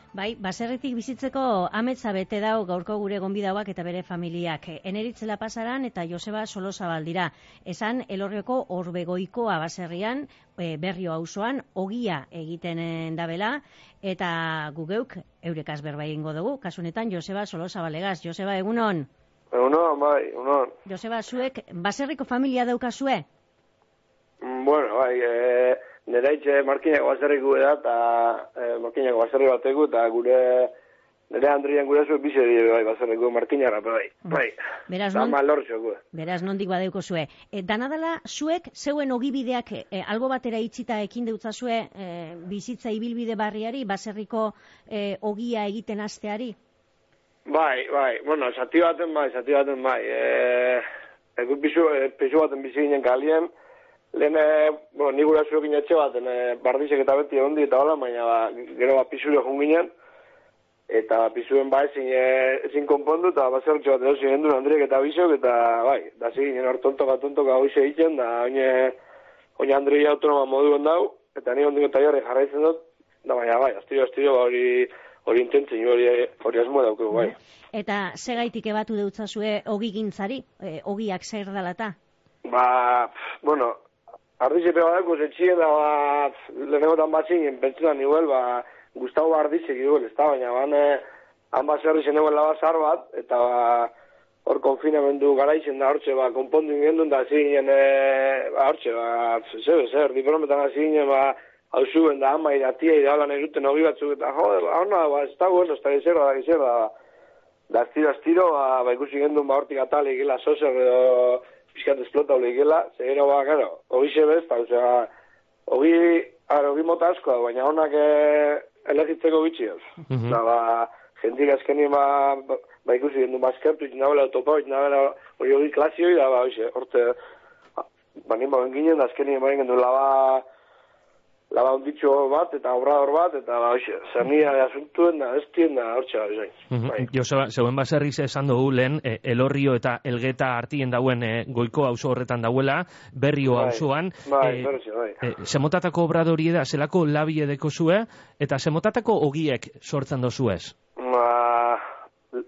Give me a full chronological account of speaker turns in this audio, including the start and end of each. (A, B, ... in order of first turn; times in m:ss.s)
0:00.1-0:19.1 A
0:19.5-0:20.7 B
0:20.8-0:23.2 A
0:24.4-0:30.7 B
0:31.3-0:34.6 B
0:34.9-0:35.4 A
0:35.1-0:36.0 B
0:36.1-0:46.6 A
0:47.5-0:50.8 B
0:51.4-0:53.5 B
0:54.1-0:59.9 B
1:00.9-1:09.0 B
1:09.6-1:17.4 B
1:17.2-1:21.9 A
1:22.4-1:23.8 B
1:24.4-1:33.9 B
1:34.4-1:46.9 B
1:47.7-1:55.1 B
1:55.7-2:07.2 B
2:00.1-2:00.4 C
2:08.2-2:10.4 B
2:11.5-2:17.1 B
2:16.7-2:24.7 C
2:23.4-2:25.2 B
2:25.2-2:30.7 C
2:31.0-2:31.8 B